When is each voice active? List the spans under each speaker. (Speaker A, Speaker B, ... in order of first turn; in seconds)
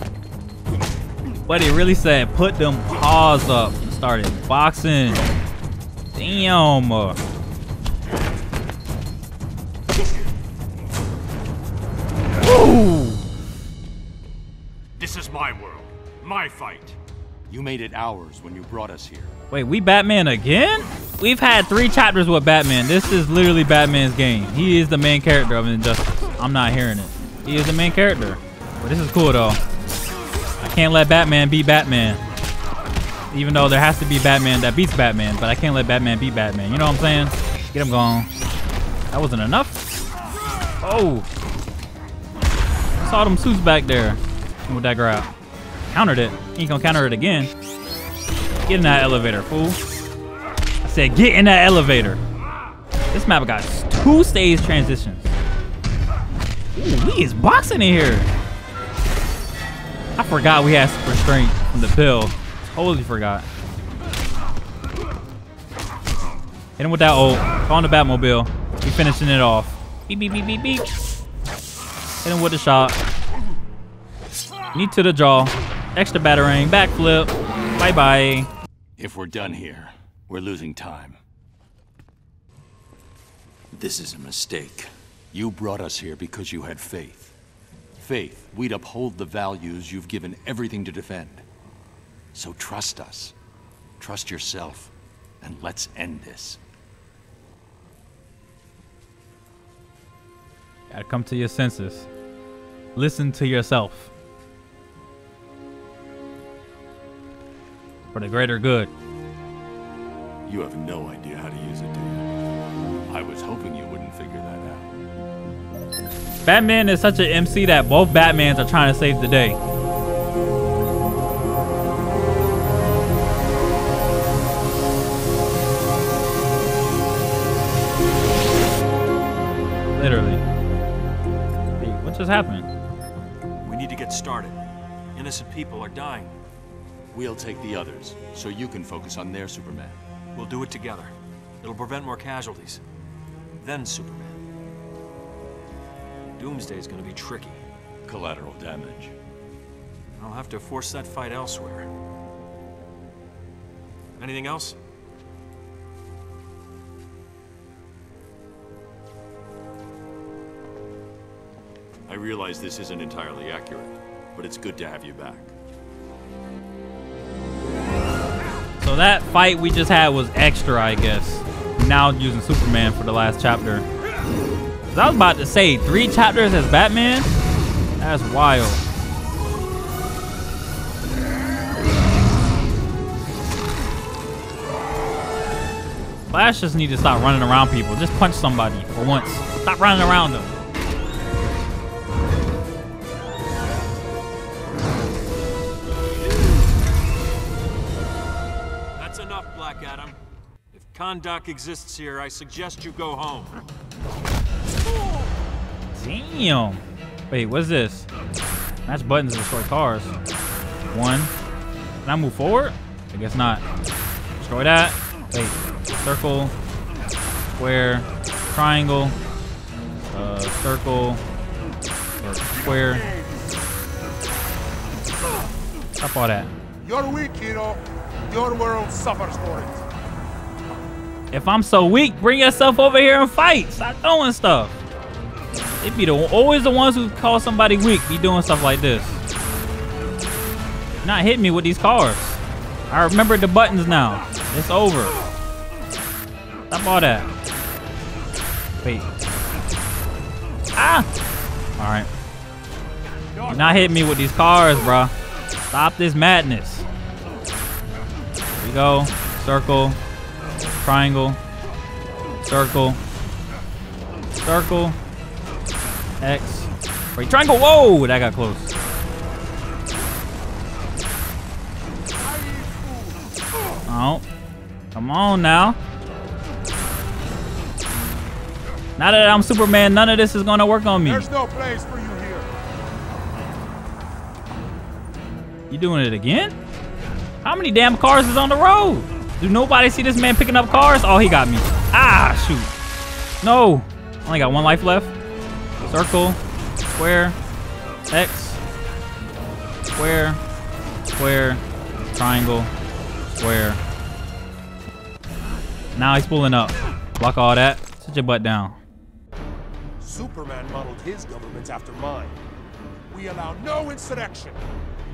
Speaker A: 1.5-5.3, 6.1-7.2, 12.4-13.2, 19.5-29.6, 30.6-32.2, 33.3-38.3, 39.1-39.8, 40.8-41.3, 43.0-45.3, 45.9-47.5, 48.7-49.8, 50.8-52.2, 53.1-55.3, 56.7-58.3, 60.2-63.5, 66.8-70.8, 72.2-73.0, 74.7-78.5, 100.9-102.1, 103.0-104.1, 108.1-108.9, 116.4-119.6, 129.9-130.4, 131.8-132.7, 168.8-173.8, 174.9-177.3, 178.0-178.8, 186.3-190.5, 205.9-208.1, 208.8-210.1, 210.9-211.3, 212.0-213.6, 214.4-216.5, 217.6-219.1, 220.1-221.2, 222.2-223.0, 226.0-226.5, 231.3-234.7, 235.8-239.2, 241.0-245.1, 246.7-247.3, 250.8-251.1, 251.8-252.1, 253.5-255.1, 255.7-256.9, 258.6-260.0, 260.8-261.4, 262.5-263.0, 264.4-264.9, 266.2-268.7, 273.9-274.2, 274.9-275.8, 279.0-281.3, 285.7-286.5, 287.4-292.7, 293.4-295.1, 295.9-296.4, 296.9-297.4, 298.1-298.6, 299.9-300.4, 301.1-301.6, 302.1-302.7, 303.3-303.8, 305.9-308.8
Speaker B: 15.0-17.0, 17.5-19.3, 79.0-81.2, 83.7-87.3, 88.0-91.4, 92.3-93.3, 94.0-96.6, 110.5-112.2, 113.1-114.9, 137.1-140.0, 148.1-149.1, 162.1-165.5
Speaker C: 133.6-134.6, 135.1-136.3, 140.3-142.8, 143.6-144.4, 146.4-147.6, 150.2-151.9, 154.2-154.8, 199.0-200.2, 200.7-203.6
Speaker D: 226.8-229.8, 253.3-254.0, 272.2-273.2, 281.0-282.5, 310.0-312.4, 313.1-314.6